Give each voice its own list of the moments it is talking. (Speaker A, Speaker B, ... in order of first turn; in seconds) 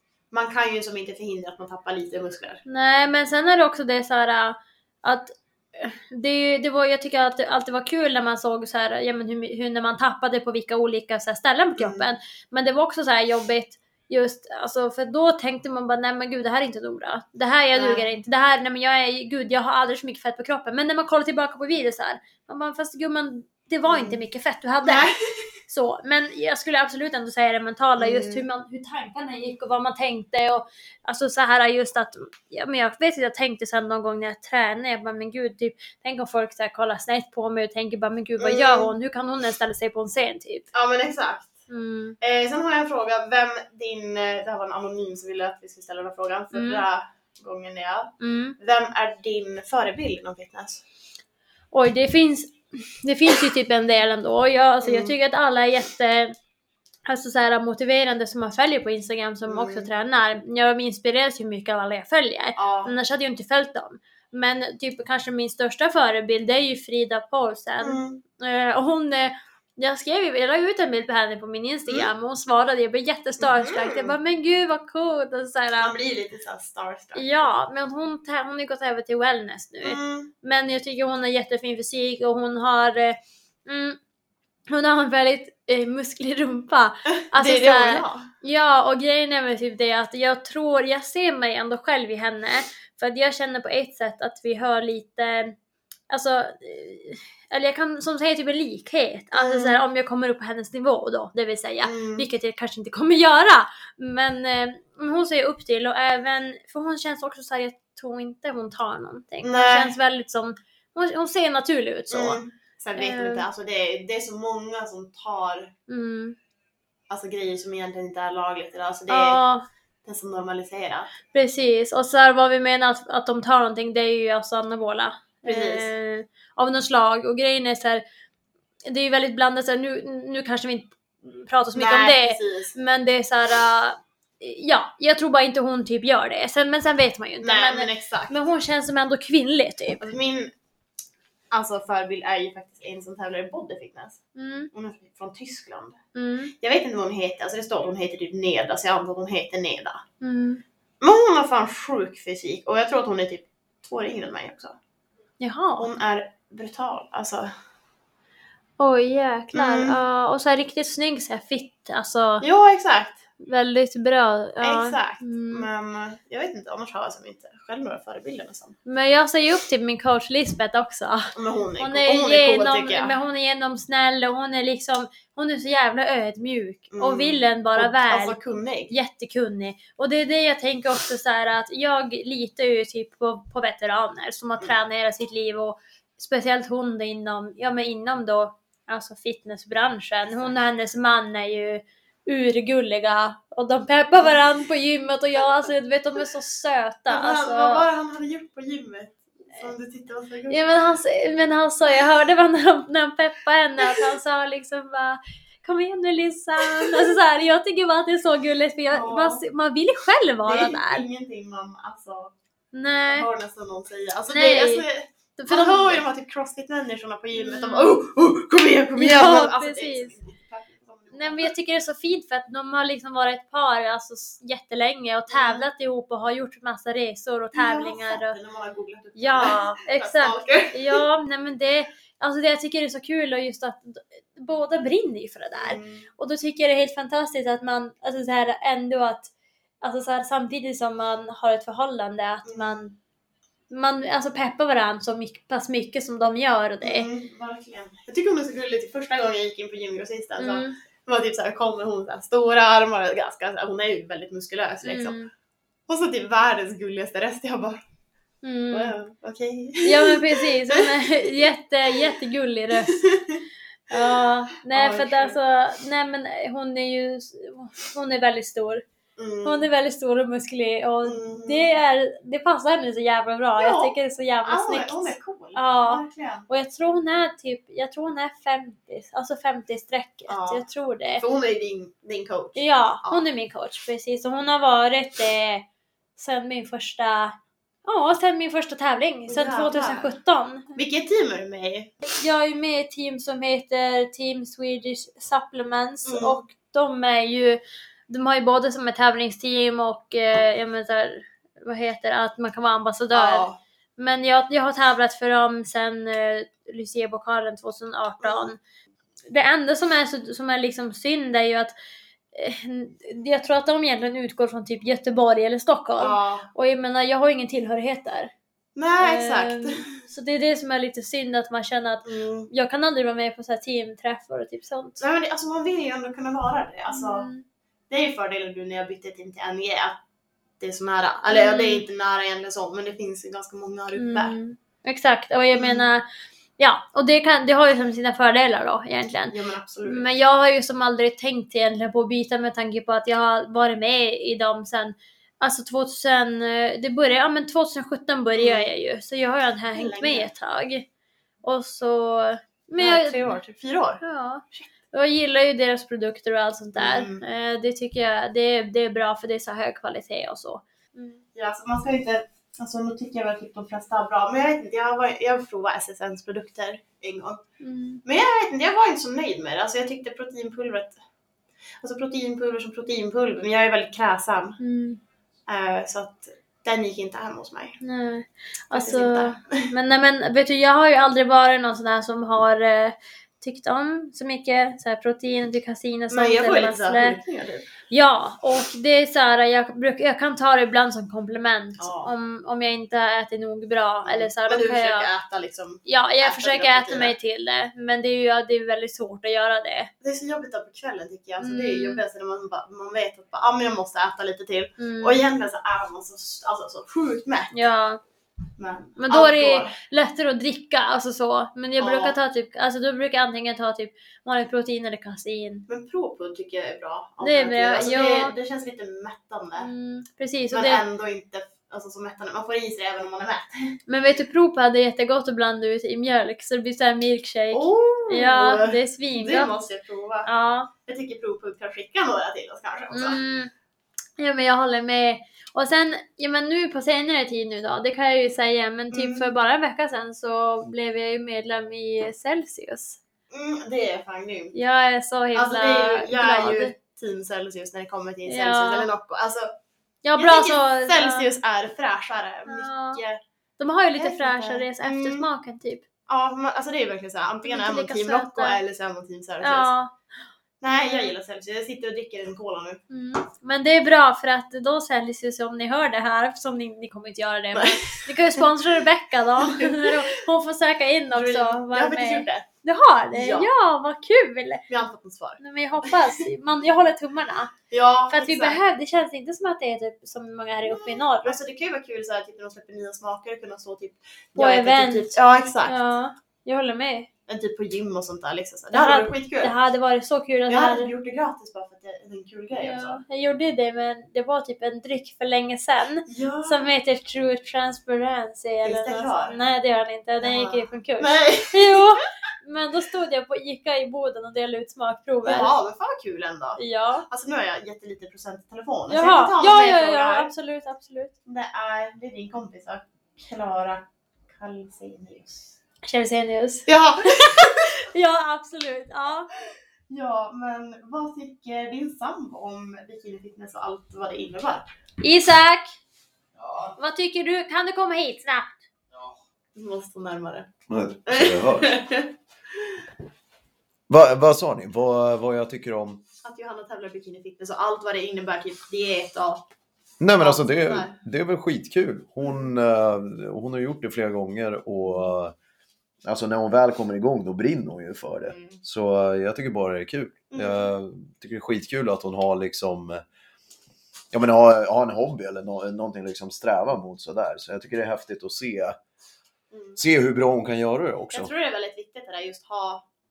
Speaker A: 0.3-2.6, 11.8-12.1, 17.7-18.0, 23.9-24.2, 24.8-25.4, 28.0-28.4, 38.4-38.9, 40.7-41.5, 42.2-50.8, 54.8-55.1, 59.5-59.9, 62.6-62.9, 67.8-68.2, 73.4-74.2, 75.8-77.5, 79.8-80.3, 87.1-88.3, 99.3-99.8, 101.8-102.2, 109.4-109.9, 112.1-115.7, 117.1-119.4, 120.0-121.1, 125.4-125.9, 131.7-132.7, 137.4-138.3, 140.0-140.5, 141.5-144.2, 144.7-146.0, 146.6-150.0, 151.0-154.8, 155.8-157.5, 159.5-160.0, 162.4-163.2, 164.6-168.8, 171.3-173.1, 176.9-178.9, 197.1-200.7, 206.6-207.1, 208.9-209.4, 210.4-212.3, 213.1-221.5, 225.3-225.7, 227.5-231.0, 235.6-236.1, 242.4-242.8, 246.8-255.2, 255.9-257.8, 258.7-261.3, 262.9-264.1, 264.7-265.4, 269.2-269.6, 271.0-271.7, 273.6-276.5, 280.3-280.6, 281.2-283.2, 289.3-290.1, 290.7-291.9, 296.1-296.4, 303.1-303.6, 308.2-308.5, 316.0-316.5, 318.8-320.0, 322.0-322.5, 325.0-327.3, 327.9-330.0, 330.6-334.3, 335.5-335.9, 339.3-340.1, 348.4-348.7, 349.7-350.3, 352.8-354.0, 356.8-357.2, 361.3-367.4, 368.0-371.0, 371.8-374.6, 375.5-377.8, 378.7-379.7, 386.1-387.7, 391.8-392.1, 394.0-397.1, 400.0-407.6, 408.6-409.8, 411.8-412.1, 415.7-419.7, 420.5-423.8, 427.5-430.3, 430.8-433.2, 438.9-439.3, 443.3-444.5, 445.3-449.5, 450.2-453.2, 454.0-455.3, 456.1-459.7, 460.6-462.8, 467.5-468.5, 469.4-470.0, 471.1-472.5, 473.1-473.5, 474.7-476.2, 477.7-478.6, 480.6-485.8, 487.3-489.5, 490.5-493.0, 496.1-496.7, 498.6-499.4, 500.2-501.9, 505.2-510.3, 511.2-515.6, 516.7-517.7, 519.9-524.7, 529.5-530.5, 531.1-532.8, 536.2-539.5, 540.2-540.9, 542.2-542.5, 544.8-545.1, 548.2-548.6, 550.3-550.7, 559.5-559.8, 561.1-562.9
Speaker B: 2.6-25.1, 25.7-40.7, 41.7-42.2, 46.5-46.8, 48.2-48.5, 51.7-56.3, 57.0-75.9, 77.1-84.0, 84.7-95.5, 96.1-112.4, 113.0-113.5, 115.9-116.3, 119.1-119.6, 121.3-128.0, 128.8-140.1, 144.3-144.7, 146.1-146.5, 150.2-150.6, 155.4-155.9, 158.8-162.4, 163.4-165.7, 168.8-178.4, 178.9-197.8, 200.5-211.0, 212.7-213.3, 214.3-214.8, 215.4-216.0, 217.3-218.0, 219.0-220.2, 221.1-228.4, 229.2-239.3, 239.8-242.9, 243.7-247.1, 250.4-250.8, 254.8-255.3, 258.4-258.9, 259.8-263.1, 263.9-268.8, 269.4-281.2, 282.6-285.6, 286.1-290.7, 292.0-308.6, 309.3-311.7, 312.3-318.3, 319.0-325.0, 326.9-327.4, 331.3-331.8, 333.9-336.0, 336.6-350.9, 351.4-353.3, 354.0-361.2, 367.6-368.0, 374.6-375.0, 377.8-387.2, 387.9-395.1, 395.8-399.9, 401.4-402.0, 404.8-405.2, 407.5-408.0, 409.0-415.7, 417.2-418.3, 419.6-420.8, 423.9-429.5, 430.2-430.7, 432.9-433.5, 434.2-443.0, 444.5-446.7, 448.2-448.9, 450.0-451.3, 452.5-453.0, 453.6-455.8, 457.4-458.6, 459.4-459.9, 460.8-461.1, 462.9-474.6, 475.4-477.5, 478.1-481.4, 484.4-487.1, 488.7-490.9, 492.6-505.5, 506.6-507.1, 508.9-511.1, 515.8-519.3, 525.0-525.8, 526.8-528.6
Speaker C: 530.7-531.8, 533.9-536.0, 540.0-545.3, 546.0-553.0, 554.1-558.8, 559.8-561.3